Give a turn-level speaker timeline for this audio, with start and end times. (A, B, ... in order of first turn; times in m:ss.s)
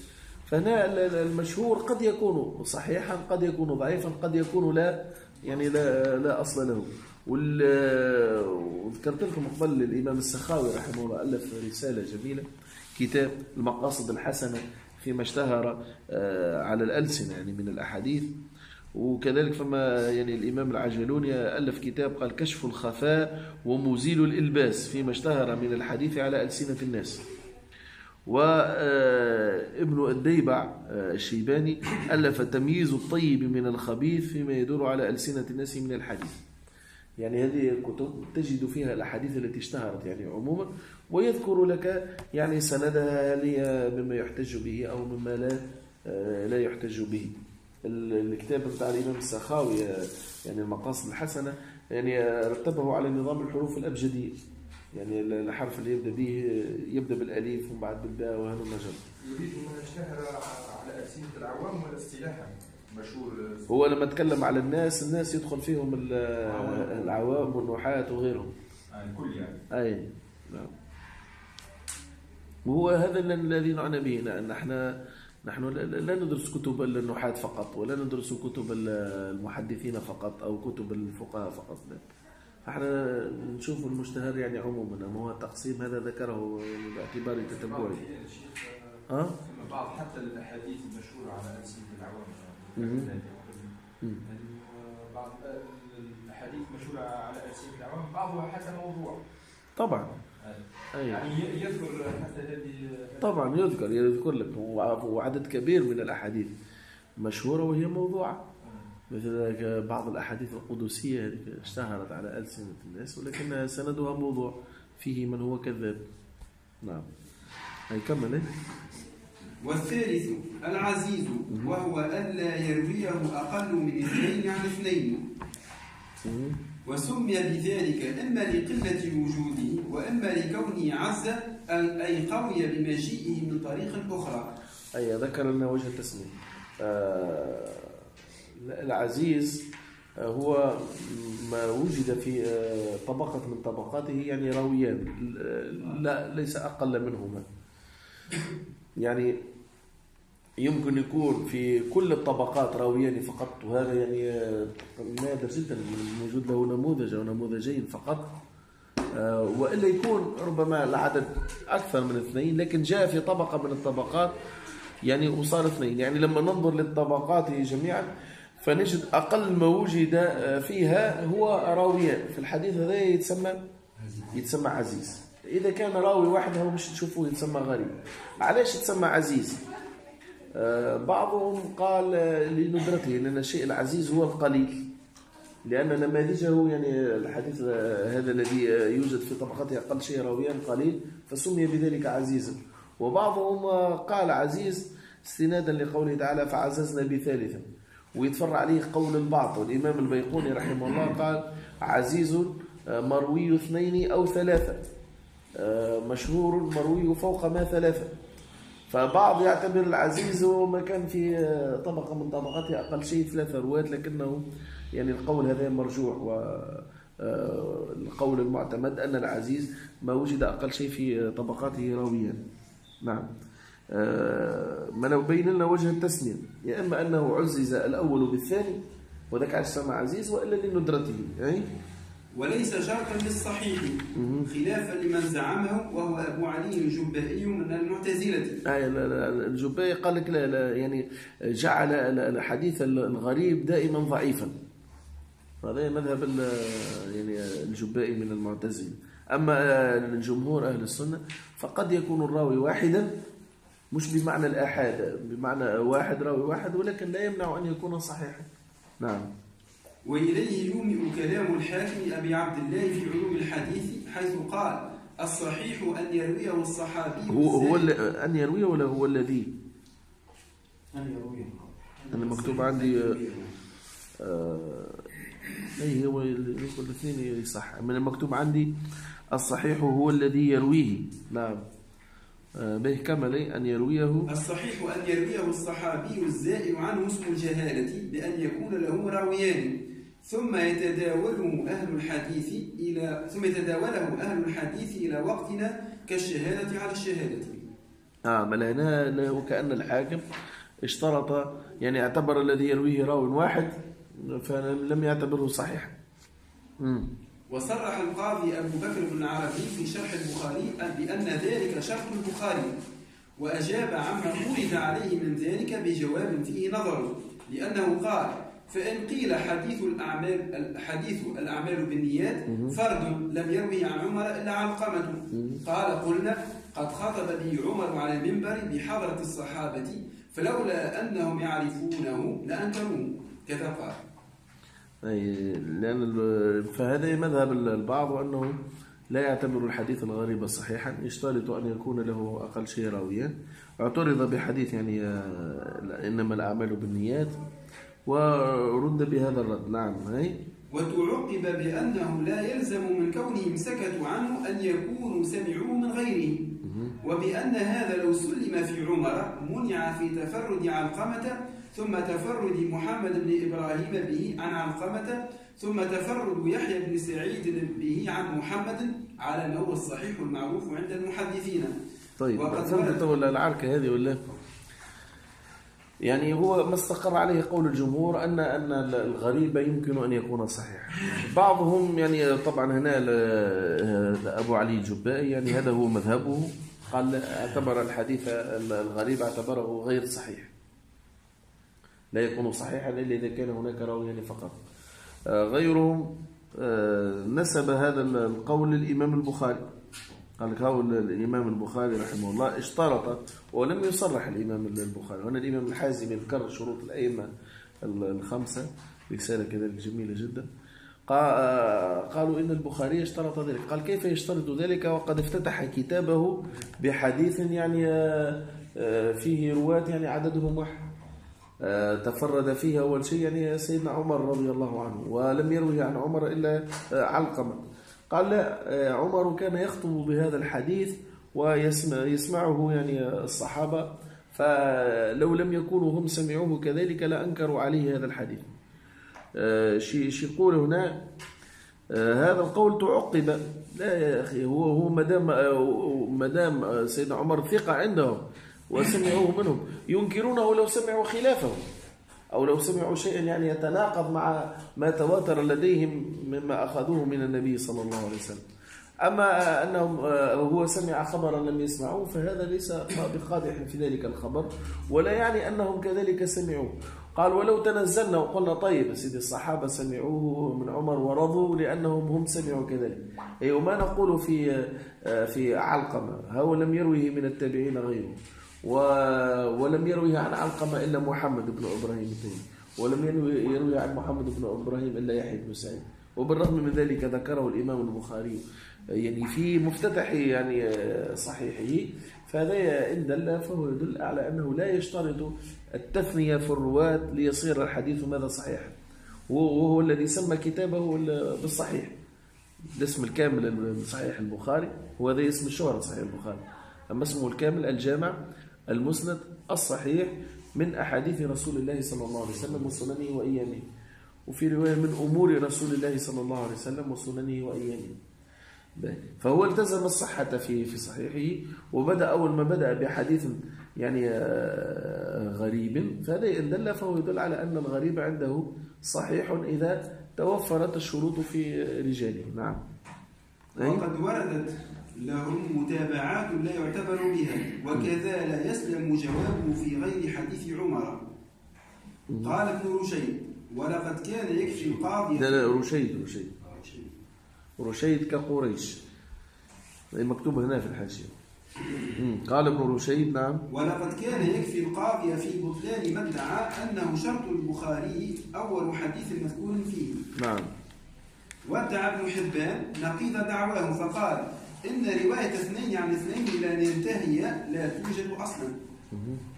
0:00.5-0:18.3 A
0:18.9-0:27.2 A
0:28.3-0:36.4 A
0:37.2-0:47.3 A
0:47.8-0:54.3 A
0:54.9-0:59.0 A
0:59.2-1:03.7 B
1:03.7-1:08.5 A
1:06.4-1:07.3 B
1:08.9-1:09.6 B
1:09.7-1:10.7 A
1:12.6-1:22.0 A
1:22.6-1:28.0 A
1:27.4-1:33.7 B
1:29.1-1:29.4 A
1:32.8-1:33.1 A
1:34.2-1:39.2 B
1:39.8-1:40.1 A
1:40.4-1:43.4 B
1:40.9-1:41.2 A
1:43.2-1:46.5 A
1:47.2-1:48.4 A
1:48.6-1:48.9 B
1:49.1-1:56.0 A
1:56.8-1:57.1 A
1:57.9-1:58.5 A
1:59.6-2:05.2 C
2:01.5-2:01.7 A
2:06.2-2:06.6 A
2:06.8-2:14.5 C
2:14.9-2:18.0 A
2:18.6-2:19.6 A
2:20.2-2:27.4 A
2:29.0-2:29.4 A
2:30.6-2:38.3 A
2:39.1-2:44.3 A
2:45.0-2:48.1 A
2:48.6-2:53.6 A
2:54.3-2:59.6 A
3:00.5-3:04.8 A
3:05.7-3:17.6 A
3:18.2-3:24.8 A
3:25.6-3:28.2 A
3:28.9-3:34.4 A
3:34.9-3:42.4 A
3:43.0-3:43.3 A
3:43.9-3:51.7 A
3:52.3-3:58.6 C
3:54.1-3:54.5 A
3:58.6-4:04.5 A
4:05.6-4:13.1 A
4:13.9-4:18.5 A
4:19.0-4:19.3 A
4:20.0-4:27.9 C
4:27.3-4:29.5 A
4:32.1-4:33.2 A
4:34.2-4:35.1 A
4:35.7-4:38.7 A
4:39.3-4:41.6 A
4:42.6-4:44.3 A
4:44.3-4:57.7 C
4:58.3-5:00.2 A
5:00.8-5:05.9 A
5:06.8-5:07.1 A
5:07.5-5:12.7 C
5:13.4-5:34.0 C
5:22.5-5:22.8 A
5:25.3-5:25.6 A
5:35.0-5:38.6 A
5:39.1-5:47.4 A
5:48.1-5:50.4 A
5:50.7-6:11.7 C
5:56.6-5:57.0 A
6:12.2-6:14.2 A
6:12.3-6:13.0 C
6:16.0-6:30.5 A
6:32.1-6:34.6 A
6:35.3-6:39.6 A
6:40.4-6:47.3 A
6:47.8-6:50.5 A
6:51.1-7:00.8 A
7:01.6-7:18.5 A
7:19.4-7:21.0 A
7:21.9-7:31.6 A
7:32.3-7:38.4 A
7:39.0-8:18.8 A
8:19.3-8:21.9 A
8:22.7-8:33.6 A
8:34.3-8:38.0 A
8:38.8-8:52.6 A
8:53.6-8:53.8 A
8:53.6-9:01.0 C
9:02.1-9:02.4 A
9:02.2-9:05.6 C
9:05.1-9:06.3 A
9:06.4-9:06.9 C
9:07.6-9:08.8 A
9:09.9-9:11.1 A
9:11.9-9:13.4 A
9:13.5-9:20.0 C
9:20.1-9:20.5 A
9:21.4-9:28.6 C
9:28.9-9:29.2 A